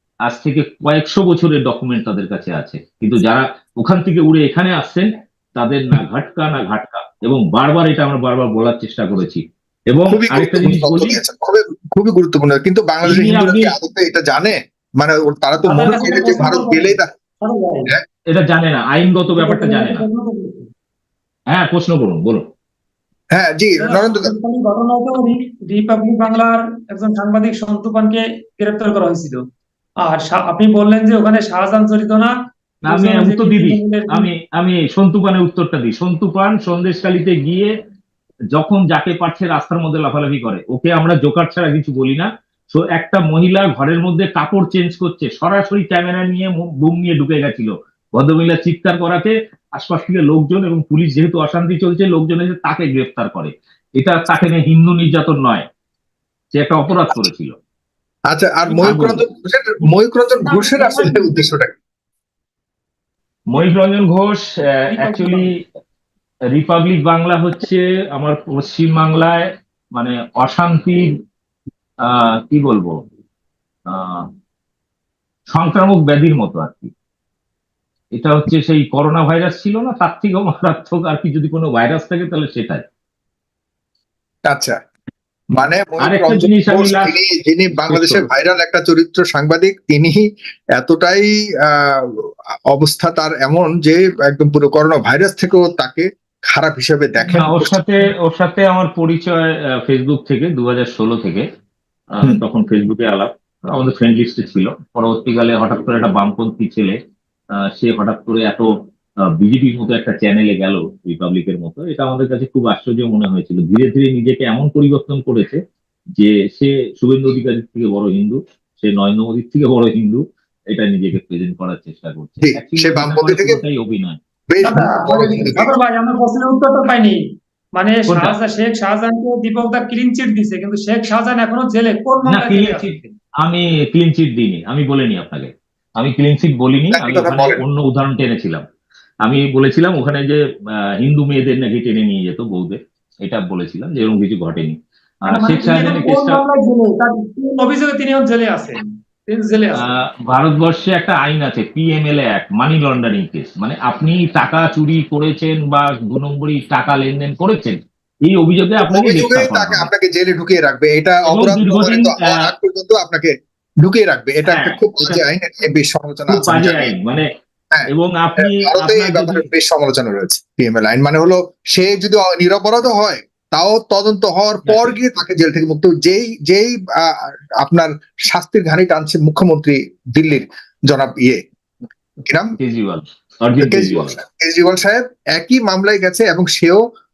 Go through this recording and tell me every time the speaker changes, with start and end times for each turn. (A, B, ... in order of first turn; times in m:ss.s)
0:00.3-0:11.2 A
0:10.1-0:17.1 B
0:13.0-0:13.7 A
0:15.7-0:17.9 C
0:18.3-0:20.0 A
0:19.4-0:20.7 C
0:21.5-0:22.4 A
0:23.3-0:24.3 B
0:23.8-0:29.4 C
0:30.0-0:32.3 C
0:32.9-0:34.3 C
0:32.9-0:37.7 A
0:38.5-0:55.6 A
0:56.5-0:57.6 A
0:58.3-1:01.8 B
0:58.7-0:59.2 A
1:00.4-1:01.3 C
1:03.5-1:05.5 A
1:04.9-1:05.5 C
1:06.5-1:11.1 A
1:12.0-1:13.0 A
1:13.9-1:14.3 A
1:15.5-1:16.9 A
1:18.2-1:22.8 A
1:24.5-1:24.8 B
1:25.6-1:30.2 B
1:26.0-1:27.2 A
1:27.7-1:28.3 A
1:30.8-1:32.0 B
1:32.7-1:37.8 B
1:37.2-1:41.4 A
1:42.1-1:47.0 A
1:47.6-1:48.7 A
1:49.3-1:55.6 A
1:56.2-2:04.2 A
2:02.4-2:03.6 B
2:04.5-2:05.7 B
2:04.6-2:07.2 C
2:07.8-2:13.1 C
2:08.1-2:08.4 A
2:12.3-2:18.6 A
2:16.9-2:17.6 B
2:19.2-2:20.4 A
2:21.0-2:24.8 A
2:25.3-2:26.4 A
2:25.3-2:29.8 C
2:29.8-2:39.9 A
2:38.8-2:46.9 B
2:41.3-2:42.3 A
2:44.5-2:45.2 A
2:46.3-2:47.3 A
2:47.7-3:01.4 B
2:47.9-2:49.5 A
2:54.7-2:55.0 A
3:02.3-3:02.6 B
3:02.6-3:04.2 A
3:03.6-3:06.8 B